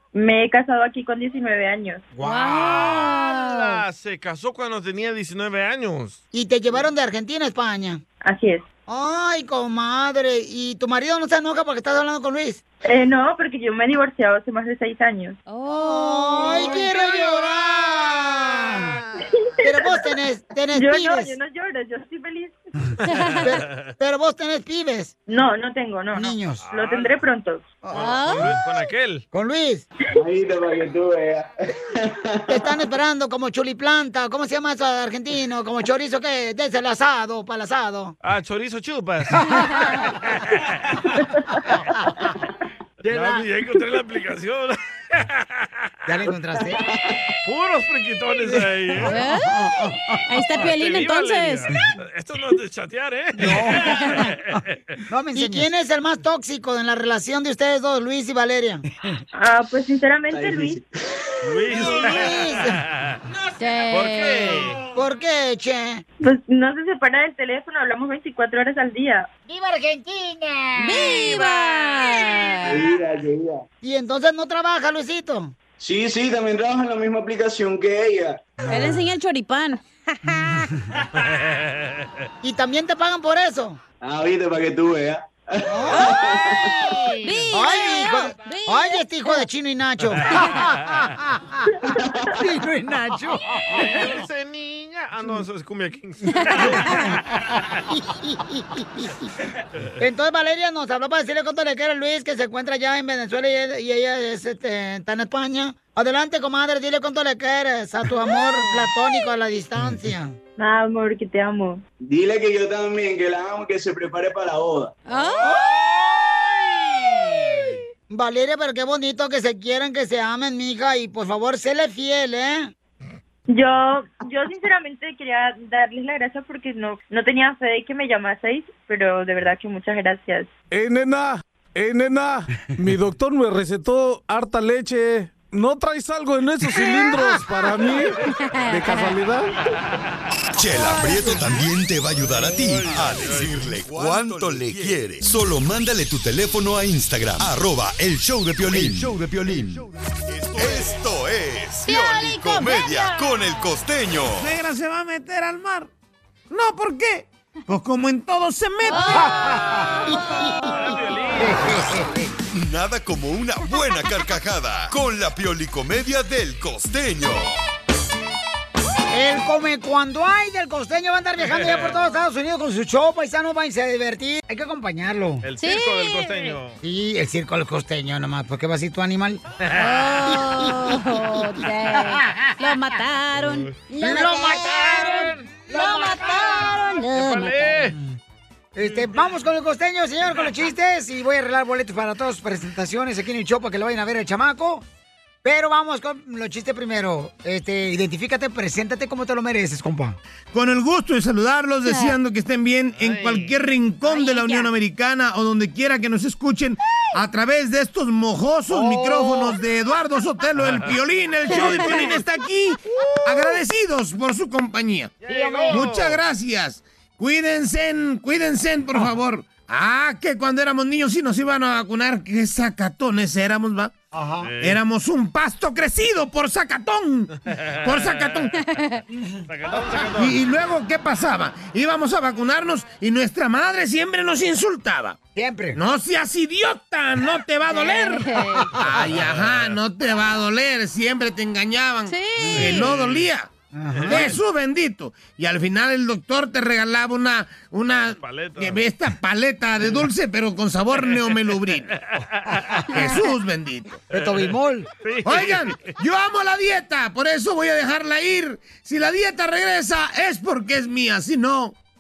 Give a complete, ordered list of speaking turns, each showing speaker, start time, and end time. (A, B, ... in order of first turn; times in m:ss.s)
0:00.1-0:02.0 A
0:02.1-0:03.1 B
0:02.2-0:03.8 C
0:02.6-0:06.2 D
0:06.3-0:08.0 B
0:08.2-0:08.6 A
0:08.9-0:12.6 B
0:12.8-0:15.4 A
0:15.5-0:17.0 C
0:15.8-0:18.9 B
0:19.2-0:20.1 A
0:19.6-0:21.3 B
0:20.7-0:22.7 A
0:23.1-0:23.4 C
0:23.1-0:23.6 D
0:23.4-0:25.1 B
0:25.3-0:27.8 A
0:26.1-0:26.6 B
0:26.6-0:27.1 D
0:27.8-0:28.5 B
0:27.9-0:29.2 D
0:27.9-0:28.5 C
0:29.3-0:29.8 B
0:30.2-0:32.7 E
0:32.5-0:38.1 B
0:38.2-0:41.0 D
0:39.4-0:39.6 B
0:43.0-0:45.7 D
0:43.0-0:43.4 B
0:46.1-0:46.8 B
0:46.6-0:47.2 E
0:47.4-0:49.2 D
0:49.0-0:49.6 C
0:49.1-0:50.1 B
0:50.3-0:51.7 C
0:50.5-0:54.8 D
0:53.4-0:53.9 B
0:53.8-0:54.2 C
0:55.1-0:58.8 B
0:59.3-1:00.8 A
1:00.3-1:01.2 E
1:01.4-1:03.2 D
1:01.7-1:02.8 B
1:03.6-1:04.6 C
1:03.9-1:04.8 D
1:04.9-1:06.0 B
1:06.2-1:09.3 A
1:09.5-1:11.2 B
1:10.8-1:12.9 C
1:12.6-1:13.6 E
1:13.8-1:15.5 B
1:15.8-1:18.5 E
1:18.7-1:20.7 C
1:21.2-1:22.1 D
1:22.4-1:23.8 B
1:24.0-1:27.0 E
1:25.7-1:26.2 B
1:25.9-1:29.4 C
1:27.5-1:34.0 B
1:30.4-1:30.7 D
1:33.8-1:37.1 D
1:36.5-1:37.0 C
1:37.9-1:39.1 B
1:40.0-1:50.4 B
1:50.6-1:51.8 A
1:52.0-1:54.9 E
1:55.0-1:55.6 C
1:58.1-2:02.7 B
2:03.5-2:10.5 A
2:10.7-2:19.5 F
2:18.4-2:19.2 C
2:20.5-2:34.5 G
2:20.9-2:21.6 C
2:22.5-2:23.8 D
2:31.8-2:33.7 C
2:34.4-2:35.9 H
2:36.5-2:39.2 H
2:38.8-2:40.9 C
2:39.1-2:40.8 B
2:40.6-2:41.9 D
2:41.4-2:42.3 B
2:42.5-2:47.5 G
2:49.1-2:55.4 B
2:51.4-2:52.0 D
2:55.4-2:56.8 D
2:55.6-2:56.6 C
2:56.8-2:59.4 B
2:59.6-3:00.1 D
2:59.7-3:07.9 C
3:02.0-3:02.5 B
3:03.4-3:03.7 D
3:04.0-3:06.8 B
3:07.1-3:07.9 D
3:08.7-3:14.8 B
3:15.4-3:20.2 B
3:20.5-3:35.1 H
3:21.8-3:22.2 C
3:23.0-3:23.5 D
3:24.0-3:24.7 C
3:28.7-3:29.5 B
3:30.6-3:32.2 D
3:31.5-3:32.0 C
3:35.2-3:35.9 B
3:35.3-3:36.2 D
3:35.7-3:44.0 H
3:44.1-3:44.5 B
3:44.4-3:44.8 D
3:44.6-3:47.3 H
3:47.4-3:48.5 D
3:47.8-3:48.6 H
3:48.6-3:49.0 C
3:49.1-3:49.4 B
3:49.5-3:50.4 D
3:50.2-3:55.2 H
3:55.3-3:55.8 B
3:55.7-3:58.2 H
3:57.7-3:58.8 C
3:58.8-4:03.5 H
3:59.1-3:59.8 D
4:02.1-4:02.9 C
4:02.4-4:02.8 B
4:02.7-4:03.3 D
4:03.7-4:04.4 B
4:03.9-4:04.4 D
4:04.1-4:11.9 H
4:08.2-4:08.8 D
4:10.9-4:12.6 D
4:12.5-4:12.8 B
4:12.9-4:13.2 C
4:12.9-4:14.0 H
4:14.1-4:14.9 B
4:14.1-4:14.5 D
4:15.0-4:16.0 D
4:15.2-4:21.8 H